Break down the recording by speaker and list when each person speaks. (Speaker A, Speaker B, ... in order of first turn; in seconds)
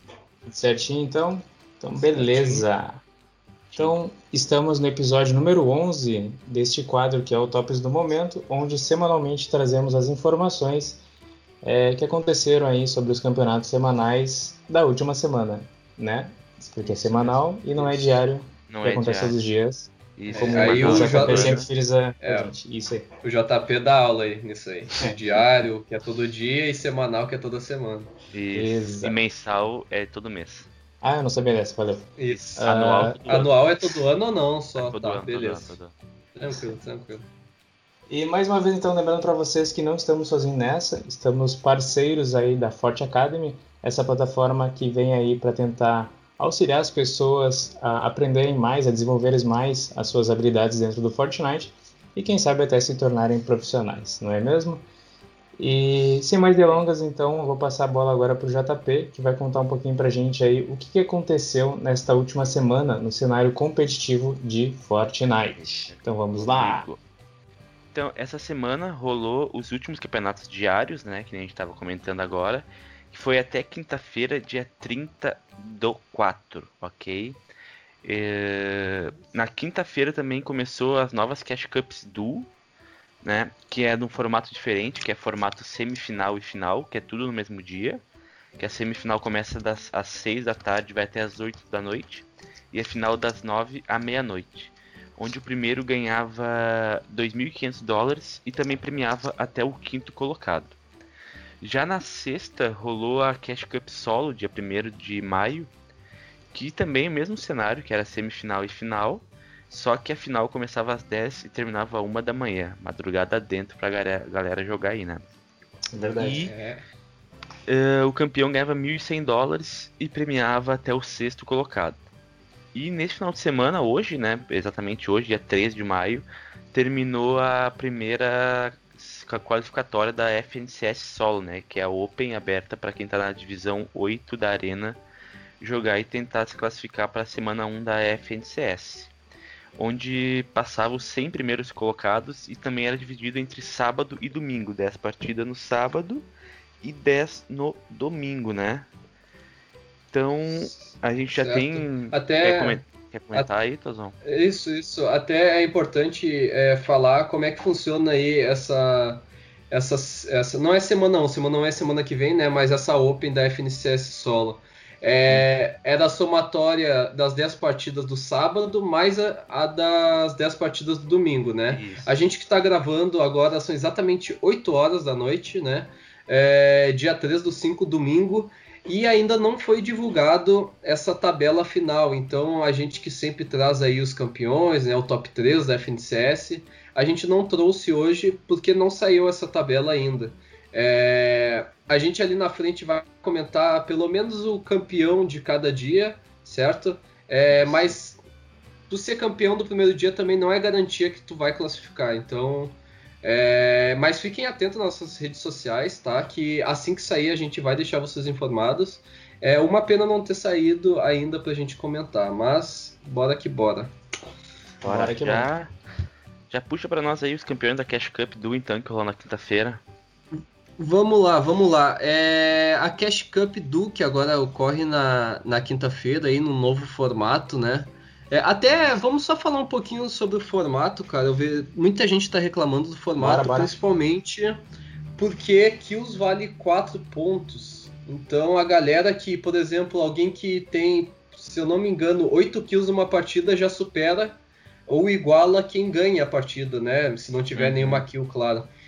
Speaker A: 0.5-3.0, 3.7-11.0, 11.6-23.1, 28.5-29.1, 31.0-32.0, 32.6-33.3, 38.1-54.8, 55.6-66.9, 115.9-116.4, 214.8-215.5, 233.2-233.8
Speaker B: 2.1-2.6, 20.3-21.6, 22.2-22.5, 23.2-28.1, 32.2-32.6, 33.2-35.8, 36.4-37.2, 116.4-116.8, 150.5-152.8, 154.2-198.2, 198.9-213.9, 220.3-234.6, 235.2-248.7
Speaker C: 16.8-18.1, 18.7-19.4, 20.1-21.7, 28.3-30.7, 32.3-33.6, 34.7-35.9, 65.5-67.0, 67.9-77.4, 78.0-82.5, 83.2-88.0, 88.6-100.8, 101.6-105.7, 106.5-115.3, 116.2-116.5, 117.7-122.0, 122.7-135.0, 135.6-139.1, 139.8-146.3, 146.8-148.9, 150.1-154.2, 171.7-172.2, 197.5-197.9, 214.8-215.7, 216.5-219.8, 247.5-248.1